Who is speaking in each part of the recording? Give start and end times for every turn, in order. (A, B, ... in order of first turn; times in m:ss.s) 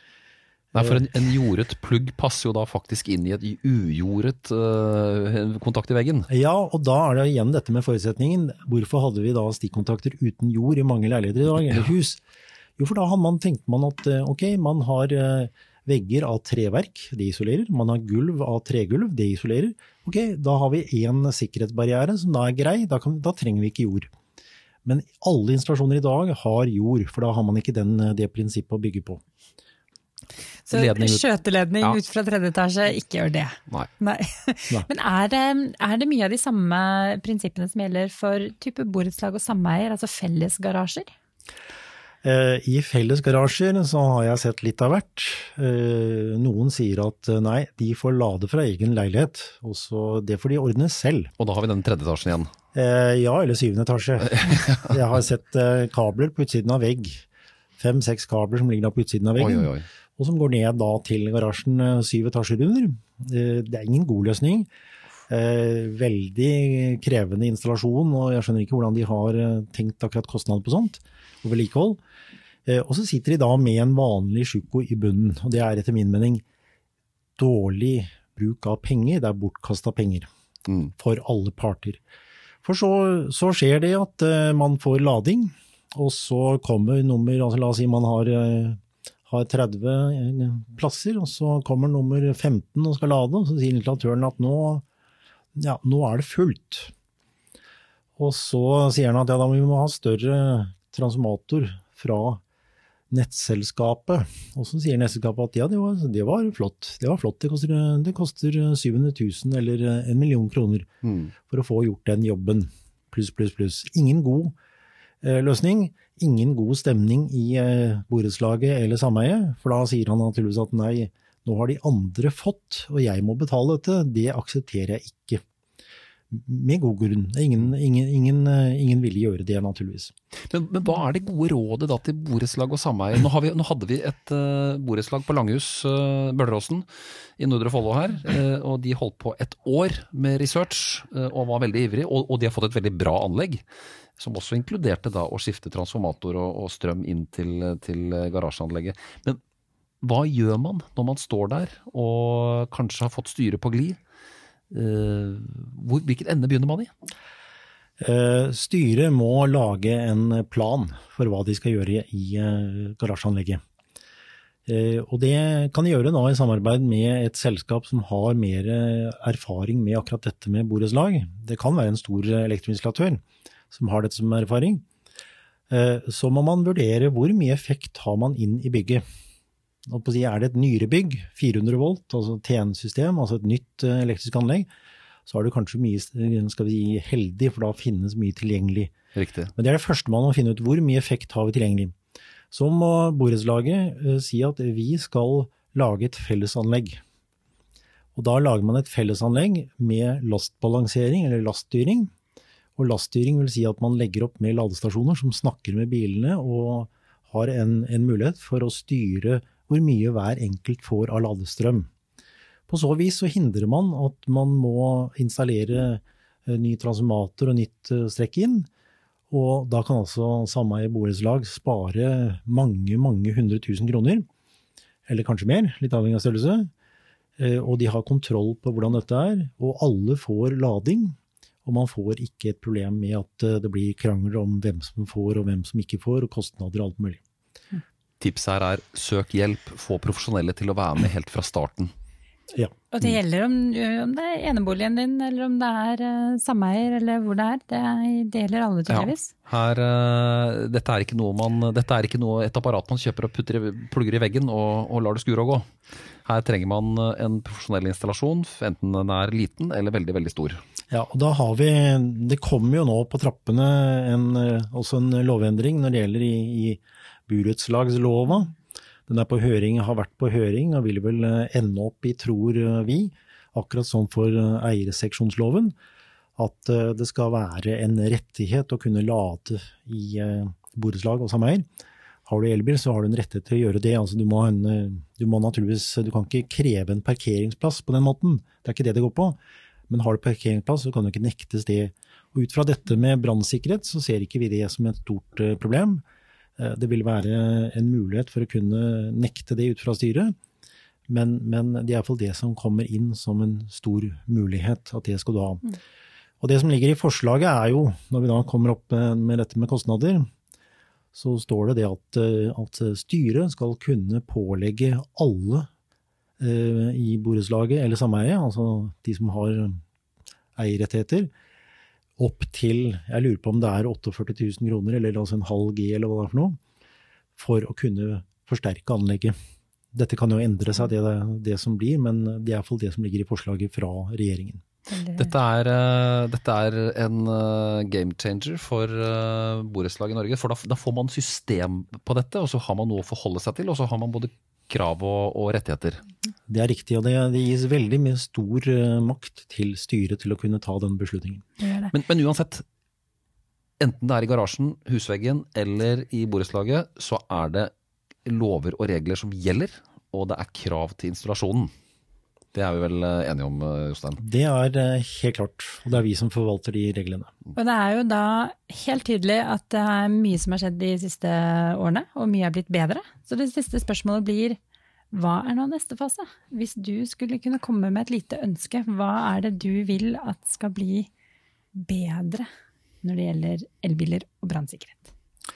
0:00.7-0:06.3 A
0:06.3-0:12.2 B
0:12.8-0:24.1 B
0:24.8-0:29.2 B
0:30.7-0:41.1 C
0:30.7-0:31.2 A
0:42.2-0:51.3 B
0:51.4-0:52.5 A
0:52.7-0:57.2 B
0:54.3-0:55.0 A
0:57.8-1:04.7 B
0:59.4-0:59.8 A
1:05.3-1:12.0 B
1:12.6-1:16.4 B
1:17.4-1:20.3 B
1:21.0-1:22.0 B
1:22.6-1:34.8 B
1:35.5-1:36.9 B
1:38.2-1:42.4 B
1:43.1-1:50.9 B
1:51.0-1:51.3 A
1:51.4-1:54.5 B
1:55.2-2:05.4 B
2:06.3-2:10.1 B
2:10.5-2:16.8 A
2:17.4-2:23.6 A
2:24.2-2:29.4 A
2:30.0-2:34.0 A
2:34.7-2:36.9 A
2:38.0-2:43.6 B
2:44.7-2:54.8 B
2:55.7-2:59.0 B
2:59.9-3:04.7 B
3:05.3-3:08.9 B
3:09.2-3:09.5 A
3:09.6-3:11.9 B
3:12.5-3:17.0 B
3:18.1-3:22.1 B
3:22.8-3:31.9 B
3:32.7-3:38.7 B
3:39.3-3:44.3 B
3:45.1-3:46.7 B
3:47.4-3:57.2 B
3:58.2-4:01.9 A
4:02.9-4:09.3 C
4:08.9-4:15.7 A
4:16.2-4:20.6 A
4:20.9-4:28.6 B
4:29.1-4:35.8 B
4:36.4-4:41.7 B
4:42.2-4:49.4 B
4:49.9-4:56.0 B
4:56.6-5:00.3 B
5:01.1-5:05.7 B
5:06.4-5:10.3 B
5:11.1-5:15.7 B
5:16.4-5:19.8 B
5:20.6-5:21.3 B
5:22.2-5:26.6 B
5:27.4-5:29.3 B
5:29.9-5:34.6 B
5:34.9-5:35.3 C
5:35.2-5:46.0 A
5:46.5-5:51.4 B
5:51.6-5:51.9 C
5:51.9-5:52.6 A
5:53.8-5:57.7 A
5:58.2-6:01.7 A
6:02.5-6:04.2 A
6:04.2-6:07.3 B
6:07.6-6:14.6 C
6:15.1-6:21.1 C
6:21.7-6:22.5 C
6:23.0-6:25.1 C